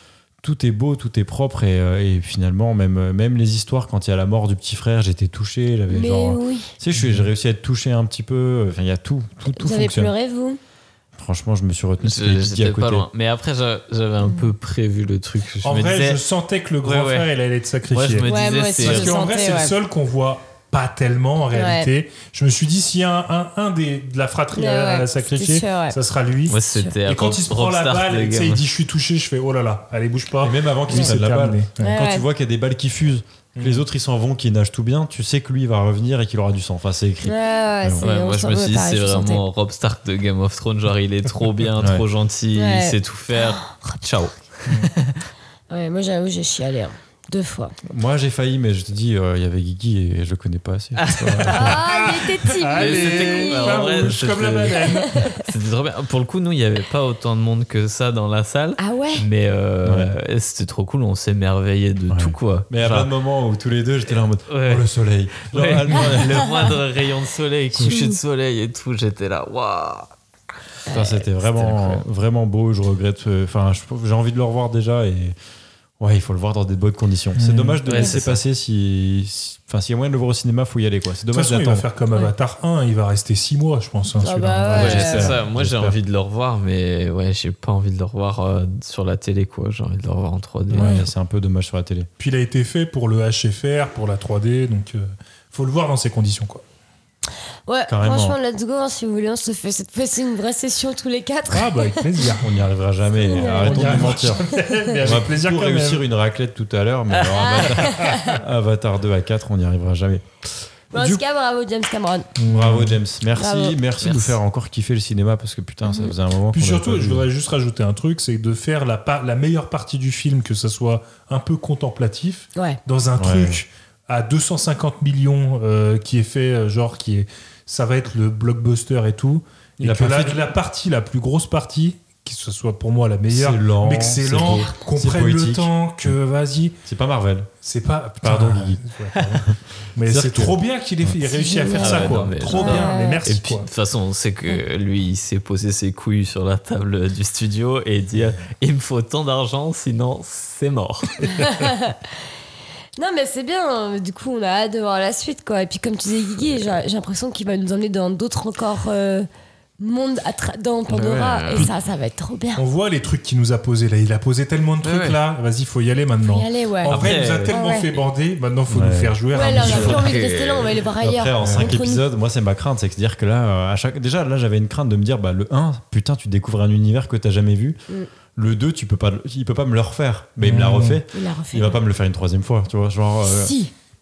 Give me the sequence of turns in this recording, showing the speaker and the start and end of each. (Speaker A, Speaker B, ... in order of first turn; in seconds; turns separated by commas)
Speaker A: 0.4-10.1, Speaker B: 5.9-6.7, Speaker C: 7.0-7.2, Speaker B: 9.5-10.6, Speaker A: 11.2-13.1, Speaker D: 12.0-16.2, Speaker C: 15.6-31.9, Speaker D: 16.8-17.3, Speaker D: 17.9-19.2, Speaker B: 18.2-19.8, Speaker B: 21.5-21.9, Speaker B: 24.5-26.0, Speaker D: 26.5-28.7, Speaker A: 30.4-38.0, Speaker B: 31.8-32.2, Speaker C: 33.6-33.8, Speaker B: 37.2-39.4, Speaker D: 38.0-45.1, Speaker B: 42.5-43.5, Speaker B: 45.7-47.7, Speaker A: 47.9-51.7, Speaker D: 51.0-51.7, Speaker B: 51.5-54.0, Speaker C: 51.7-55.3, Speaker D: 52.8-63.1, Speaker B: 54.9-55.4, Speaker B: 58.8-59.2, Speaker A: 59.8-60.1, Speaker A: 62.1-66.5, Speaker D: 64.5-64.9, Speaker D: 65.5-70.1, Speaker B: 67.8-68.2, Speaker B: 70.9-71.2, Speaker A: 70.9-75.4, Speaker D: 71.5-72.0, Speaker A: 76.0-81.9, Speaker C: 77.3-77.8, Speaker D: 77.9-78.4, Speaker C: 81.3-85.3, Speaker B: 84.2-85.3, Speaker D: 84.7-91.0, Speaker A: 84.8-86.0, Speaker A: 90.7-92.1, Speaker C: 92.2-96.6, Speaker B: 97.7-102.3, Speaker A: 97.9-98.4, Speaker C: 101.5-102.5, Speaker A: 102.4-104.4, Speaker B: 103.2-104.9, Speaker C: 103.6-106.0, Speaker A: 105.0-111.2, Speaker D: 107.2-107.8, Speaker B: 107.4-108.3, Speaker B: 110.9-112.3, Speaker C: 112.4-113.0, Speaker A: 112.5-117.2, Speaker B: 113.3-113.8, Speaker D: 114.0-114.3, Speaker B: 115.8-116.1, Speaker C: 116.5-136.8, Speaker A: 123.2-123.6, Speaker A: 129.8-130.4, Speaker A: 133.3-135.7, Speaker A: 136.8-137.5, Speaker C: 137.6-143.7, Speaker A: 138.2-138.8, Speaker A: 140.1-140.6, Speaker B: 141.3-143.2, Speaker D: 141.7-151.2, Speaker B: 151.2-152.0, Speaker B: 153.0-159.3, Speaker B: 159.8-162.6, Speaker D: 160.9-161.7, Speaker C: 162.6-170.1, Speaker D: 164.8-165.2, Speaker B: 166.2-168.0, Speaker D: 166.8-167.6, Speaker A: 168.7-170.0, Speaker B: 169.3-172.0, Speaker D: 169.6-170.8, Speaker A: 171.0-177.8, Speaker C: 171.4-171.7, Speaker A: 178.3-183.5, Speaker C: 180.4-181.0, Speaker B: 181.1-181.8, Speaker B: 183.3-183.7